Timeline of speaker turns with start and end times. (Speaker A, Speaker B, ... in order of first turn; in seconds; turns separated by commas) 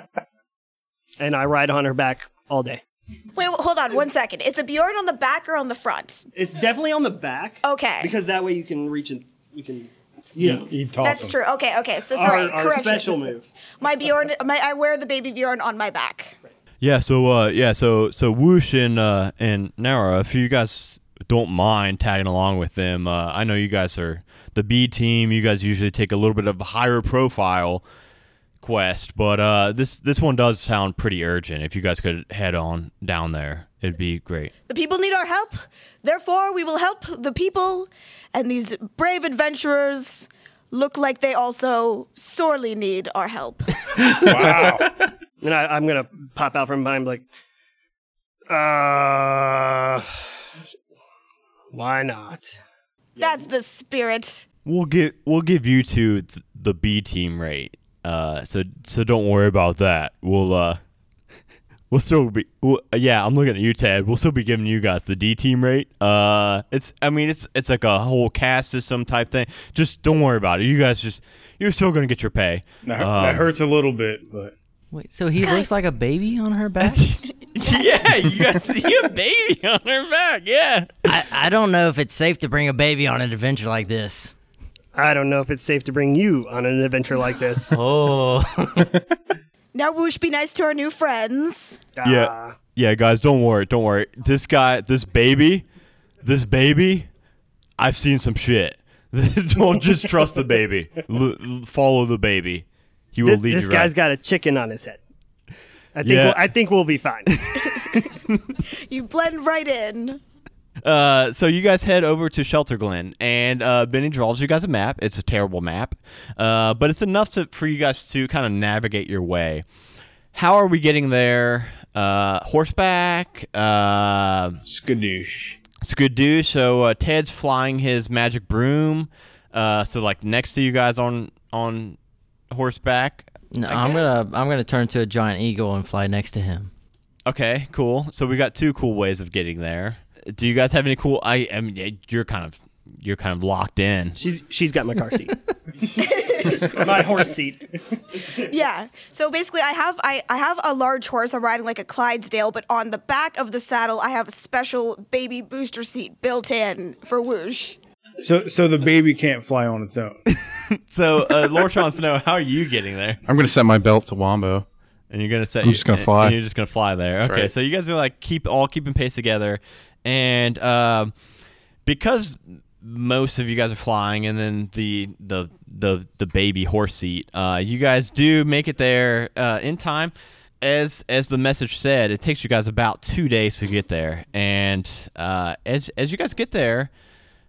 Speaker A: 1.2-2.8, Speaker B: 3.4-6.2, Speaker A: 6.3-10.7, Speaker B: 7.6-8.1, Speaker C: 10.4-11.4, Speaker B: 11.0-13.2, Speaker A: 12.1-13.5, Speaker B: 13.8-16.4, Speaker D: 16.8-27.8, Speaker D: 28.6-34.5, Speaker B: 34.7-44.3, Speaker C: 44.1-44.9, Speaker A: 45.4-47.2, Speaker A: 48.5-50.1, Speaker A: 51.7-52.5, Speaker B: 53.2-54.4, Speaker D: 54.6-60.8, Speaker D: 61.9-73.5, Speaker C: 72.8-74.5, Speaker E: 74.9-77.0, Speaker B: 75.4-75.7, Speaker D: 76.8-81.1, Speaker E: 81.0-84.3, Speaker A: 84.9-87.8, Speaker E: 87.7-89.0, Speaker B: 89.7-91.8, Speaker A: 92.0-92.5, Speaker D: 92.0-95.7, Speaker D: 96.2-97.1, Speaker D: 97.8-103.9, Speaker A: 103.2-105.0, Speaker A: 106.0-107.4, Speaker D: 106.0-106.5, Speaker D: 107.3-108.4, Speaker B: 107.6-108.1, Speaker B: 108.7-110.2, Speaker D: 110.8-119.6, Speaker D: 120.3-124.6, Speaker C: 124.7-125.6, Speaker D: 125.8-132.0, Speaker D: 132.5-134.0, Speaker E: 133.5-136.7, Speaker D: 137.2-144.2, Speaker A: 144.2-145.4, Speaker B: 146.0-146.8, Speaker A: 146.6-147.7, Speaker B: 148.4-157.8, Speaker C: 158.2-160.2, Speaker D: 160.3-163.2, Speaker F: 163.2-164.7, Speaker D: 165.1-171.1, Speaker F: 165.6-166.4, Speaker F: 167.2-167.5, Speaker D: 171.8-186.9